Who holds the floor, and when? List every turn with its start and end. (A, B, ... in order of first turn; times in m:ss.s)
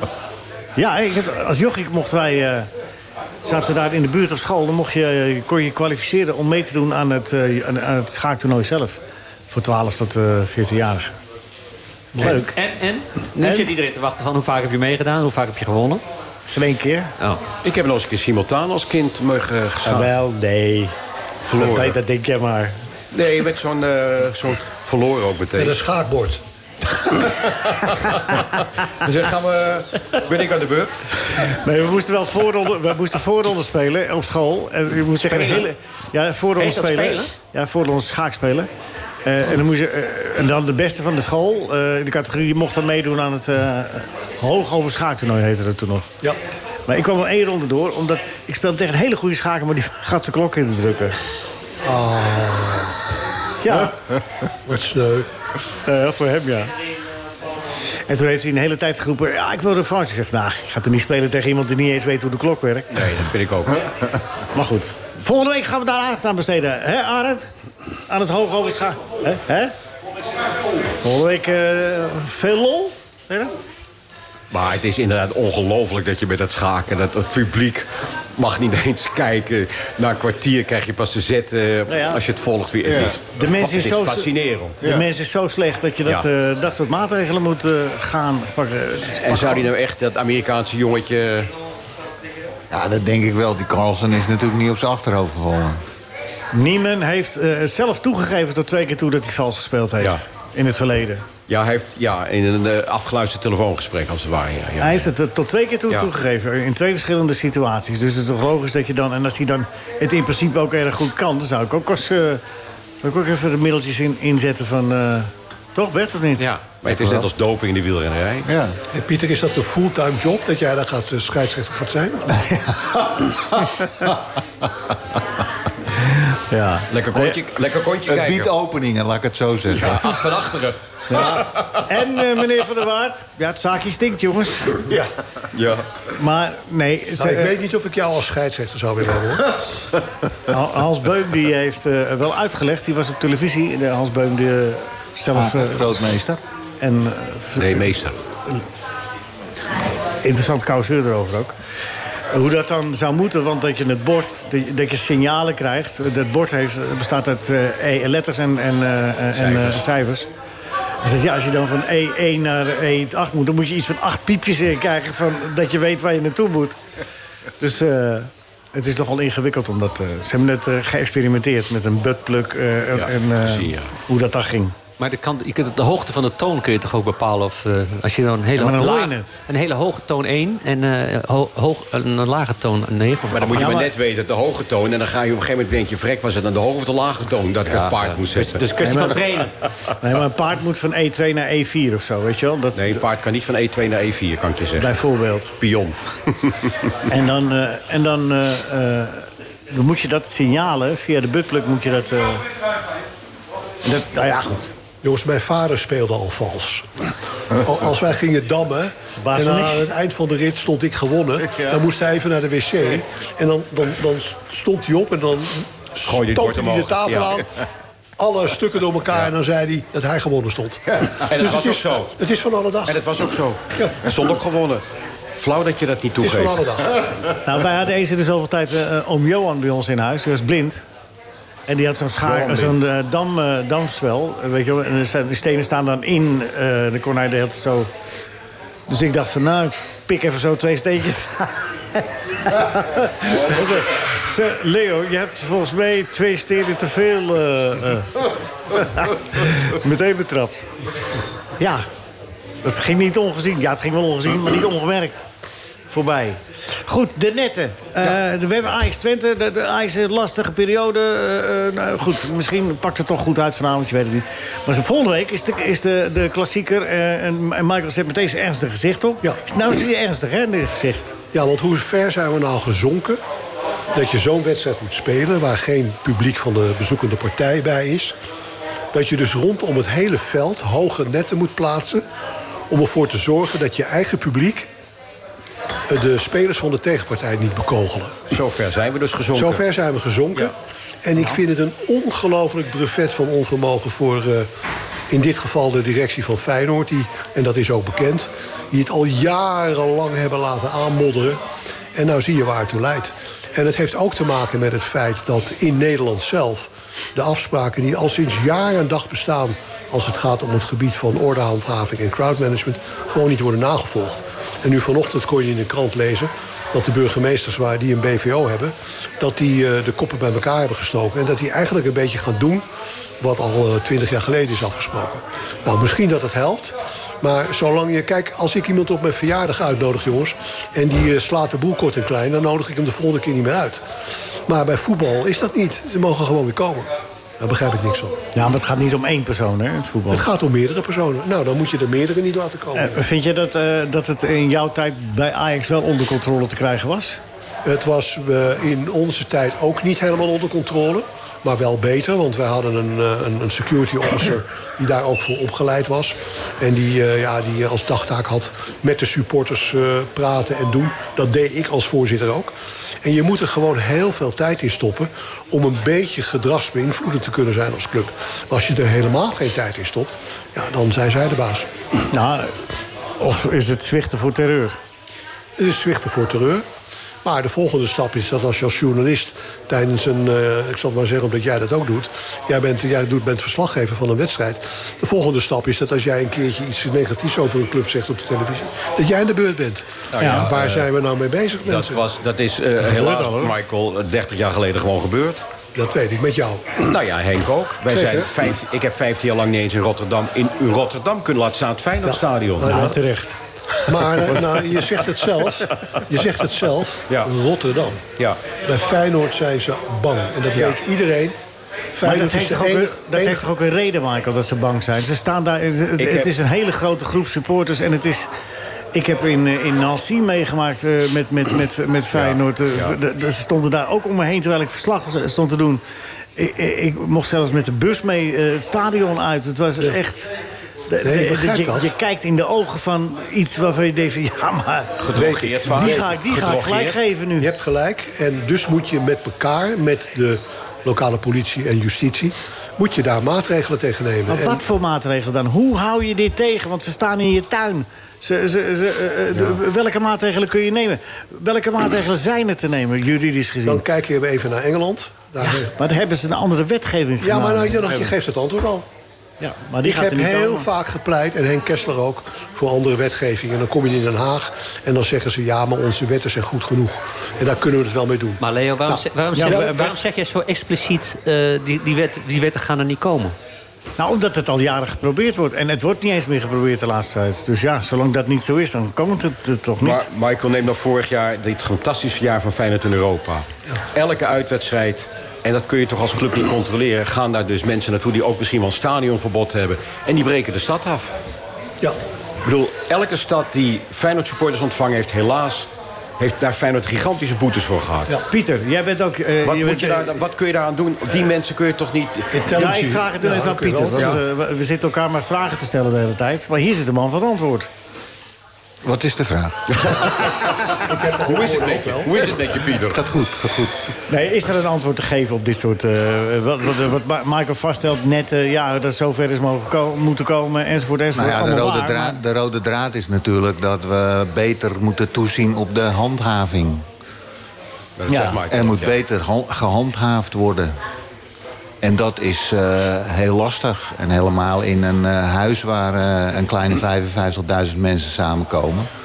0:00.8-0:02.7 A
0:03.4-0:11.1 A
0:12.1-0:12.5 A
0:12.2-0:16.0 B
0:13.4-0:13.7 A
0:16.5-0:17.1 A
0:17.6-0:20.1 C
0:19.8-0:20.9 A
0:21.5-0:22.0 C
0:21.5-0:22.8 A
0:23.1-0:25.8 C
0:25.5-0:26.4 D
0:27.1-0:31.0 C
0:31.5-0:38.7 A
0:35.2-0:35.7 B
0:36.6-0:37.3 B
0:39.2-0:46.1 A
0:46.9-0:51.2 A
0:51.8-0:52.9 D
0:53.6-0:53.9 A
0:54.6-0:55.3 D
0:55.8-0:56.7 A
0:58.1-1:03.0 A
1:02.9-1:03.8 C
1:04.5-1:07.5 A
1:08.1-1:09.7 A
1:11.0-1:13.5 A
1:14.5-1:24.8 C
1:21.9-1:22.2 A
1:22.9-1:29.7 A
1:29.2-1:31.5 C
1:32.7-1:35.8 E
1:36.5-1:41.2 A
1:41.5-1:45.1 C
1:44.8-1:52.4 A
1:53.0-1:56.5 A
1:56.4-1:57.2 B
1:56.8-1:58.5 C
1:58.4-1:58.8 E
1:58.9-2:02.4 D
2:06.4-2:07.4 A
2:06.9-2:08.5 C
2:08.1-2:10.1 E
2:09.7-2:11.8 C
2:11.1-2:14.8 A
2:15.5-2:15.8 C
2:16.1-2:17.5 A
2:17.2-2:19.6 D
2:20.5-2:25.9 A
2:25.3-2:26.4 E
2:26.8-2:28.0 A
2:27.6-2:28.2 C
2:30.2-2:31.6 A
2:32.3-2:40.3 A
2:39.3-2:39.8 C
2:41.0-2:46.8 A
2:47.6-2:54.8 A
2:52.9-2:53.9 C
2:55.0-3:03.7 B
2:58.6-2:59.4 A
3:03.3-3:08.6 C
3:03.5-3:03.9 A
3:07.7-3:09.6 B
3:08.8-3:09.2 A
3:10.0-3:13.0 A
3:12.7-3:14.9 C
3:14.8-3:15.6 A
3:15.6-3:16.7 C
3:17.1-3:22.4 A
3:23.8-3:24.7 A
3:25.0-3:26.9 D
3:27.6-3:37.5 D
3:29.2-3:29.9 A
3:36.0-3:37.4 C
3:38.2-3:43.1 D
3:41.3-3:42.2 C
3:42.8-3:44.8 C
3:43.8-3:44.1 D
3:45.4-3:46.6 C
3:46.2-3:47.0 D
3:47.4-3:50.8 A
3:51.7-3:57.9 A
3:52.2-3:52.8 C
3:58.9-4:10.7 A
4:11.6-4:11.8 A
4:12.6-4:15.2 A
4:15.9-4:31.2 A
4:31.3-4:33.2 D
4:33.9-4:38.1 D
4:38.9-4:42.0 D
4:42.7-4:44.7 D
4:45.9-4:48.3 D
4:48.3-4:49.6 C
4:49.3-4:54.5 D
4:55.1-5:01.4 D
5:01.9-5:22.6 D
5:23.2-5:33.8 D
5:34.5-5:38.2 D
5:38.3-5:40.2 A
5:40.1-5:43.0 D
5:42.7-5:47.2 A
5:47.6-6:11.7 D
6:12.1-6:12.5 A
6:13.2-6:14.8 A
6:15.6-6:16.6 D
6:17.2-6:32.0 D
6:30.1-6:30.9 C
6:30.2-6:30.5 A
6:31.6-6:35.4 C
6:32.8-6:33.5 A
6:35.7-6:36.9 D
6:36.8-6:42.8 C
6:37.9-6:38.3 D
6:42.0-6:43.0 D
6:42.6-6:43.4 A
6:43.9-6:48.0 D
6:48.6-6:51.4 D
6:51.9-6:53.4 D
6:52.0-6:58.3 A
6:56.0-6:56.3 C
6:58.9-7:05.8 A
7:02.1-7:03.0 C
7:06.4-7:10.3 A
7:10.9-7:15.1 A
7:11.0-7:11.9 D
7:15.0-7:17.0 C
7:15.1-7:16.1 D
7:15.6-7:17.5 A
7:17.4-7:24.6 D
7:24.3-7:33.8 A
7:33.6-7:35.7 D
7:35.4-7:38.1 A
7:37.2-7:38.8 D
7:39.4-7:40.7 A
7:39.8-7:50.0 D
7:48.4-7:53.4 B
7:49.3-7:49.9 A
7:54.0-8:00.0 A
7:59.8-8:11.1 C
8:12.4-8:18.1 C
8:18.3-8:20.2 A
8:19.4-8:22.3 C
8:22.3-8:24.2 D
8:22.5-8:27.7 A
8:23.9-8:24.2 C
8:28.8-8:29.9 E
8:29.7-8:33.0 C
8:30.8-8:32.2 D
8:32.7-8:33.7 E
8:34.1-8:42.2 A
8:41.1-8:46.8 E
8:48.0-8:48.9 C
8:48.1-8:48.4 A
8:48.4-8:50.8 E
8:51.8-8:58.9 E